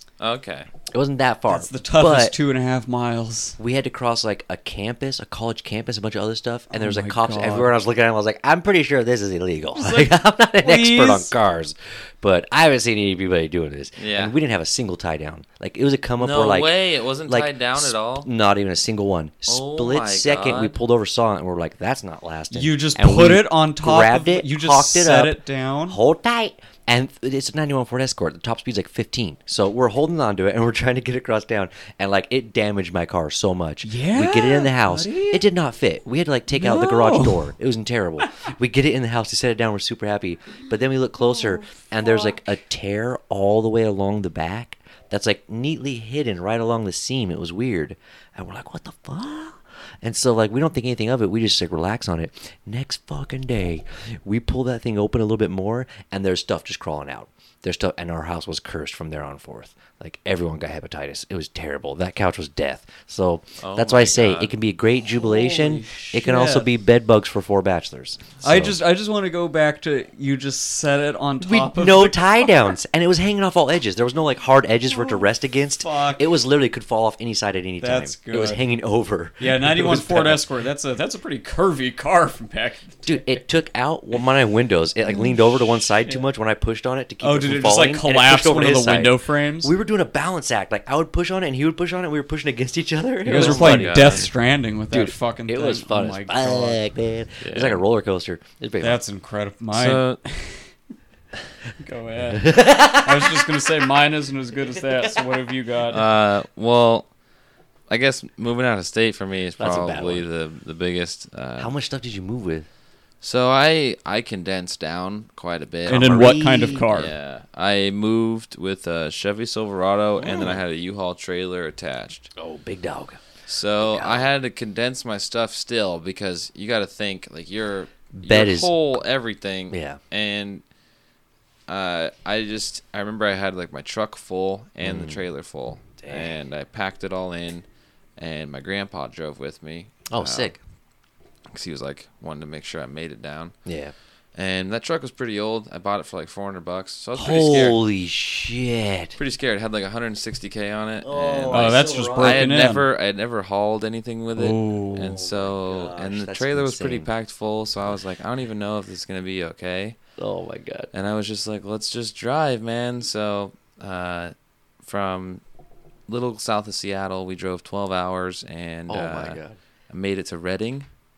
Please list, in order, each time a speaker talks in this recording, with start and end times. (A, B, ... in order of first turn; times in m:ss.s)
0:00.2-0:00.7 A
0:00.9-0:02.4 B
0:01.5-0:03.6 C
0:03.6-1:08.8 B
0:06.7-0:07.7 C
0:09.8-0:11.3 C
0:14.0-0:14.4 A
0:16.2-0:18.3 A
0:19.5-0:20.8 A
0:22.5-0:26.0 C
0:33.8-0:35.4 C
0:36.5-0:37.5 C
0:42.0-0:42.3 C
1:03.6-1:04.6 A
1:05.1-1:06.7 C
1:08.4-1:12.5 C
1:11.4-1:20.4 B
1:14.9-1:15.3 C
1:15.8-1:16.3 C
1:17.8-1:18.6 C
1:19.4-1:23.4 C
1:23.0-1:34.3 B
1:25.1-1:26.2 C
1:27.2-1:29.7 C
1:33.2-1:36.8 C
1:33.3-1:34.3 A
1:34.9-1:39.0 B
1:37.4-1:37.8 A
1:38.8-1:40.7 C
1:39.7-1:40.2 A
1:41.8-1:46.1 C
1:42.4-1:43.4 B
1:45.9-1:47.1 A
1:47.9-1:51.7 A
1:49.6-1:50.3 B
1:51.6-1:52.7 B
1:53.2-1:56.4 A
1:55.9-1:56.9 B
1:55.9-1:57.1 C
1:56.9-2:02.3 A
2:00.2-2:00.6 B
2:02.4-2:03.2 B
2:03.5-2:10.6 A
2:03.8-2:04.3 B
2:08.1-2:08.7 B
2:09.7-2:10.0 B
2:11.7-2:17.6 A
2:14.8-2:15.2 B
2:16.0-2:16.3 B
2:18.2-2:20.5 A
2:20.1-2:20.6 B
2:21.5-2:23.6 A
2:23.6-2:23.9 B
2:24.4-2:27.8 A
2:27.1-2:29.2 B
2:29.2-2:40.0 A
2:31.0-2:32.5 B
2:31.5-2:32.9 C
2:34.4-2:35.2 C
2:35.0-2:37.1 B
2:40.2-2:40.9 B
2:40.9-2:45.4 A
2:46.1-2:50.9 A
2:48.9-2:49.6 B